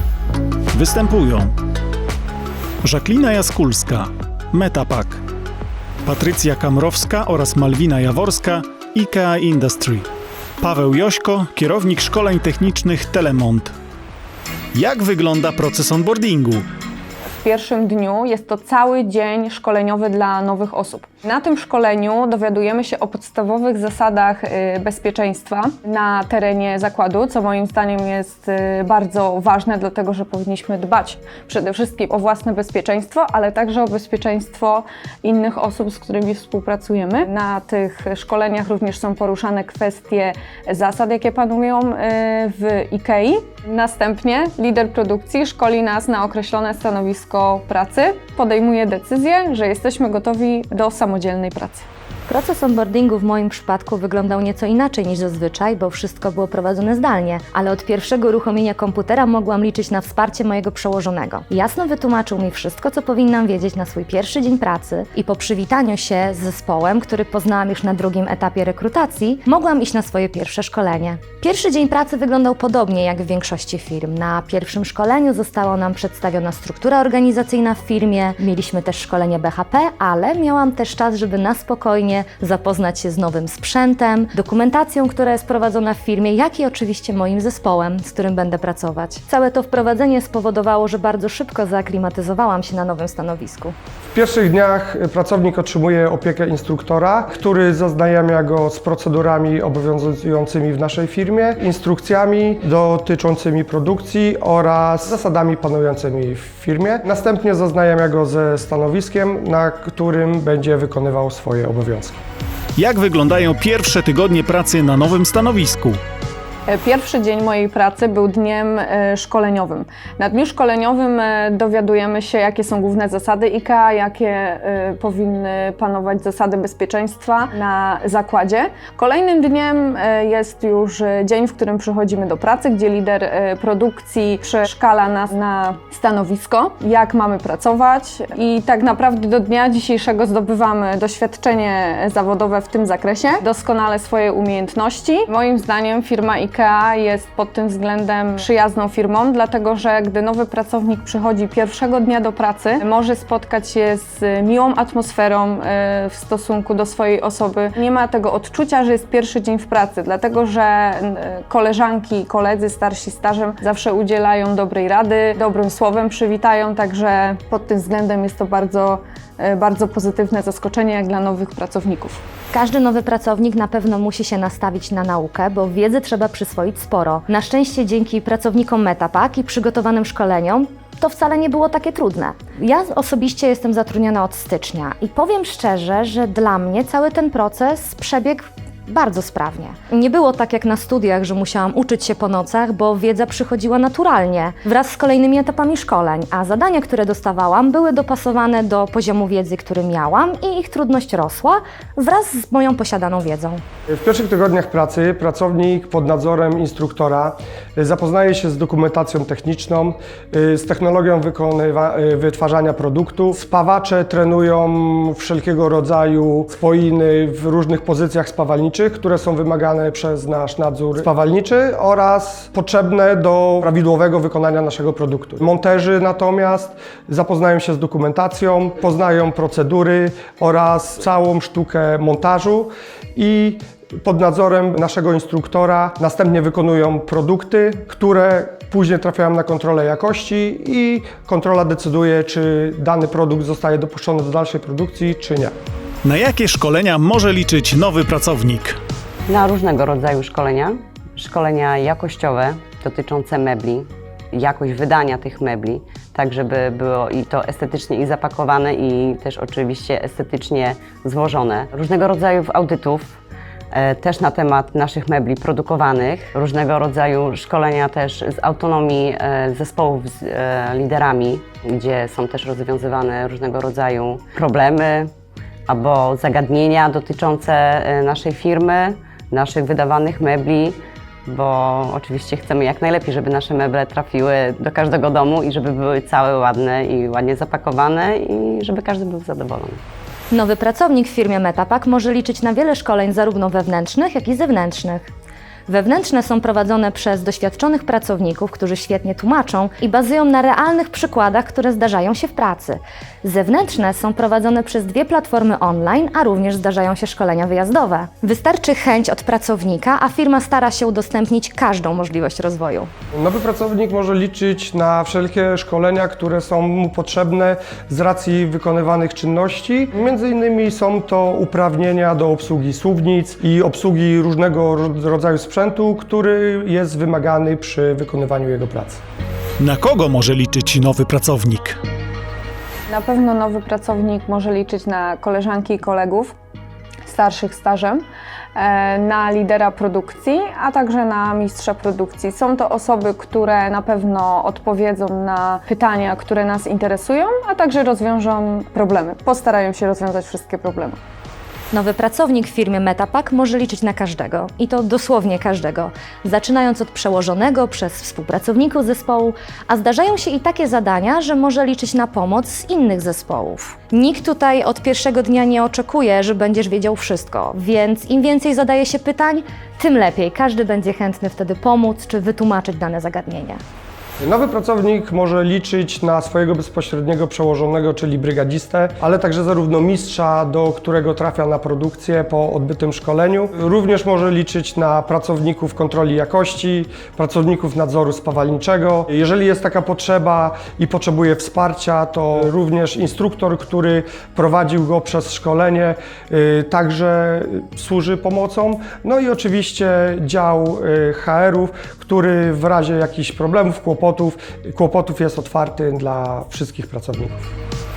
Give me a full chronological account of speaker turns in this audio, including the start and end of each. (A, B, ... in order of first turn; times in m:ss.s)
0:00.7-0:01.5 A
0:02.8-0:05.2 A
0:06.0-0:10.1 A
0:10.6-0:13.7 A
0:14.7-0:16.6 A
0:17.3-0:51.8 B
0:52.3-1:33.7 C
1:34.1-1:52.2 D
1:52.8-1:56.0 A
1:56.7-2:52.2 B
2:52.5-3:23.6 C
3:23.9-4:05.5 D
4:06.0-4:08.8 A
4:09.3-4:23.2 E
4:23.7-4:35.1 E
4:35.7-4:49.8 E
4:50.3-4:55.1 C
4:55.7-5:12.9 C
5:13.1-5:29.0 D
5:29.6-5:31.8 A
5:32.9-5:36.3 B
5:37.0-5:38.0 B
5:38.6-5:51.0 B
5:51.7-6:13.6 C
6:14.2-6:47.4 D